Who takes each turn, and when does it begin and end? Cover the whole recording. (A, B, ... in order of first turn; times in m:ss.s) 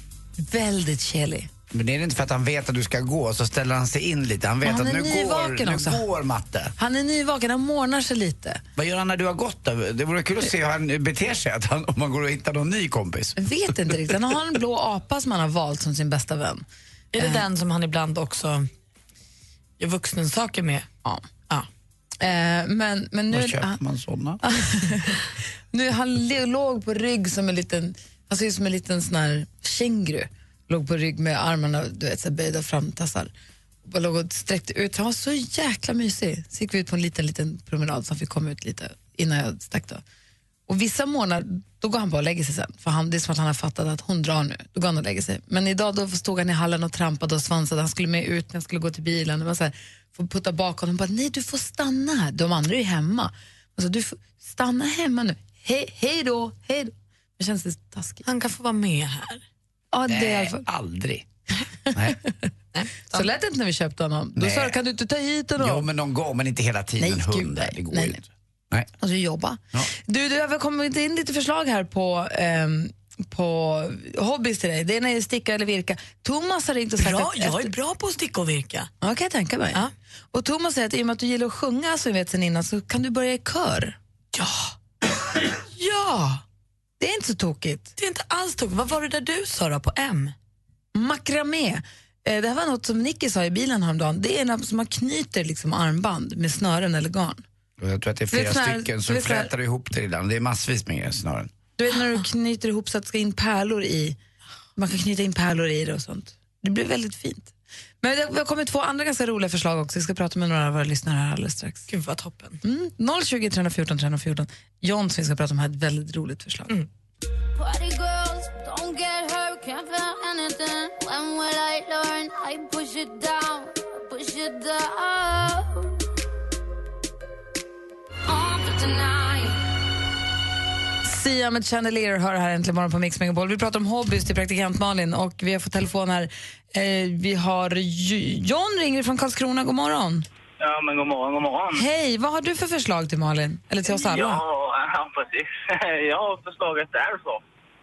0:00.4-0:01.5 A
0:01.7-0:06.7 B
0:04.6-0:06.0 A
0:06.8-0:08.6 A
0:08.8-0:13.4 B
0:13.4-0:16.6 A
0:17.1-0:18.7 C
0:19.8-0:20.9 C
0:22.2-0:23.8 A
0:23.3-0:24.4 B
0:24.4-0:33.3 A
0:33.8-0:40.0 A
0:40.7-0:58.2 A
0:58.2-0:59.4 C
0:59.9-1:00.6 A
1:00.1-1:01.3 B
1:01.9-1:02.2 B
1:02.7-1:03.3 C
1:03.1-1:05.9 A
1:04.4-1:04.8 B
1:05.6-1:08.9 B
1:07.0-1:08.2 A
1:09.0-1:17.7 A
1:17.0-1:18.9 C
1:19.0-1:24.0 A
1:25.6-1:26.4 A
1:27.0-1:27.9 A
1:28.0-1:30.3 C
1:30.9-1:37.4 A
1:37.8-1:41.5 B
1:38.3-1:39.5 A
1:41.8-1:44.2 A
1:44.8-1:51.9 A
1:51.9-1:52.6 C
1:52.6-1:56.7 A
1:57.6-2:05.9 D
2:08.3-2:09.6 D
2:11.0-2:20.3 A
2:20.6-2:21.8 E
2:21.8-2:24.4 A
2:23.8-2:27.4 E